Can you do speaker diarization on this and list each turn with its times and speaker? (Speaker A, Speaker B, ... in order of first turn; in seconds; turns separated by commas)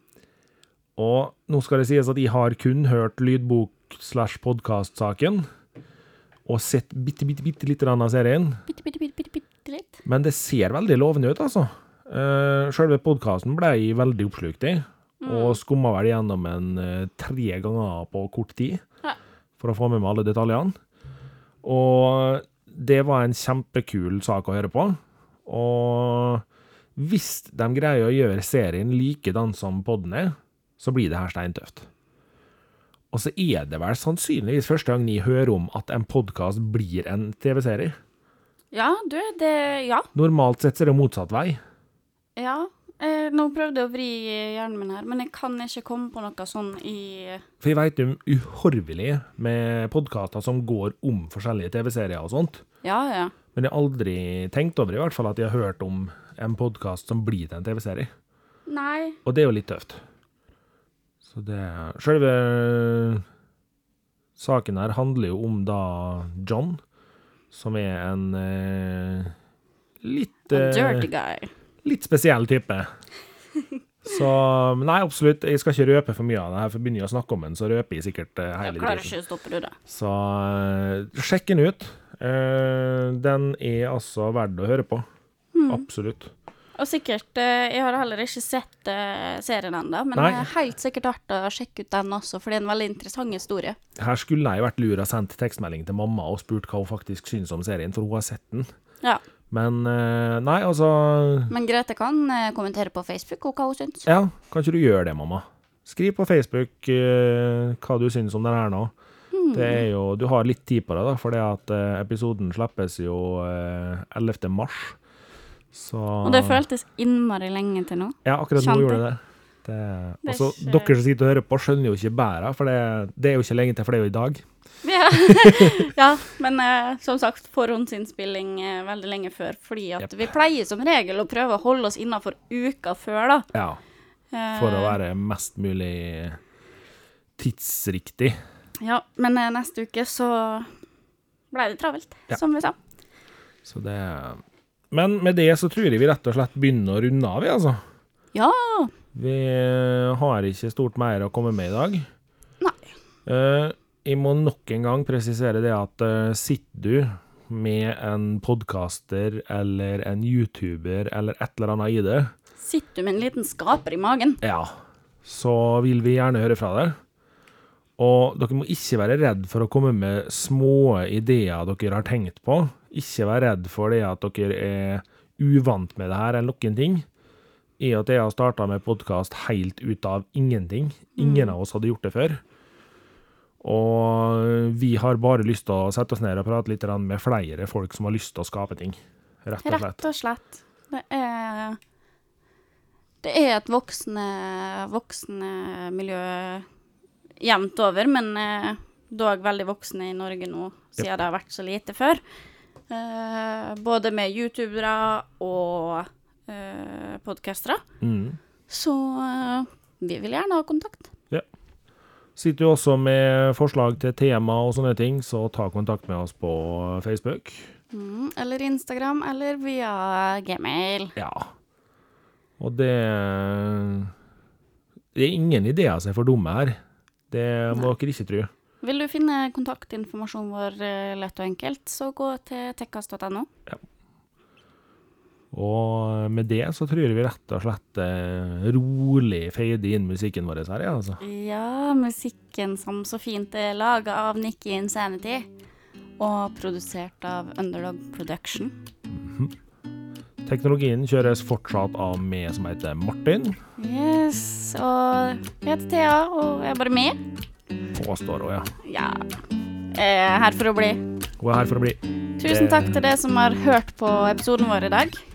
Speaker A: 1.0-5.5, Speaker A: 6.5-8.6, Speaker B: 8.7-10.0, Speaker A: 10.0-18.8, Speaker B: 15.2-15.6, Speaker A: 19.6-20.7, Speaker A: 21.6-26.4, Speaker A: 26.9-31.9, Speaker A: 33.1-38.0, Speaker B: 38.7-40.1, Speaker A: 40.1-41.6, Speaker B: 42.4-47.4, Speaker A: 47.6-52.6, Speaker B: 52.8-53.3, Speaker A: 53.5-58.1, Speaker B: 58.7-59.2, Speaker A: 59.2-60.0, Speaker A: 61.2-63.2, Speaker A: 64.4-66.8, Speaker A: 67.5-69.3, Speaker A: 70.0-71.1, Speaker B: 70.5-71.5, Speaker A: 71.8-72.9, Speaker A: 74.0-79.1, Speaker B: 78.6-79.8, Speaker A: 79.9-85.0, Speaker B: 85.5-85.8, Speaker A: 85.7-86.3, Speaker B: 86.8-93.8, Speaker A: 90.1-90.5, Speaker A: 94.0-98.7, Speaker A: 99.5-101.5, Speaker B: 101.5-104.1, Speaker A: 104.0-108.9, Speaker B: 109.3-109.8, Speaker A: 109.5-115.0, Speaker A: 115.7-116.6, Speaker B: 116.2-119.0, Speaker A: 118.2-124.5, Speaker B: 120.2-120.9, Speaker B: 124.8-133.5, Speaker A: 125.1-125.9, Speaker A: 130.0-130.3, Speaker A: 133.5-133.8, Speaker B: 134.3-135.0, Speaker A: 134.5-136.4, Speaker A: 137.4-138.4, Speaker B: 138.8-140.7, Speaker B: 141.5-142.8, Speaker A: 143.6-147.8, Speaker B: 148.3-148.9, Speaker A: 149.1-152.1, Speaker A: 153.2-162.3, Speaker B: 162.6-164.4, Speaker A: 164.4-167.0, Speaker A: 168.0-177.1, Speaker A: 177.8-182.4, Speaker B: 181.2-181.5, Speaker A: 183.6-190.0, Speaker B: 189.6-191.8, Speaker B: 193.2-196.7, Speaker B: 197.4-202.2, Speaker B: 202.9-207.8, Speaker A: 208.0-208.4, Speaker B: 208.7-211.1, Speaker A: 212.3-217.7, Speaker B: 217.9-221.1, Speaker A: 221.2-221.5, Speaker A: 222.6-224.1, Speaker A: 225.1-226.8, Speaker A: 227.3-228.5, Speaker B: 228.8-233.5, Speaker A: 235.5-241.2, Speaker B: 241.2-245.4, Speaker B: 246.2-248.7, Speaker A: 249.1-249.5, Speaker A: 250.4-253.6, Speaker B: 253.8-257.2, Speaker A: 257.9-258.7, Speaker B: 258.8-259.3, Speaker B: 259.9-261.0, Speaker A: 261.4-263.1, Speaker B: 262.4-265.2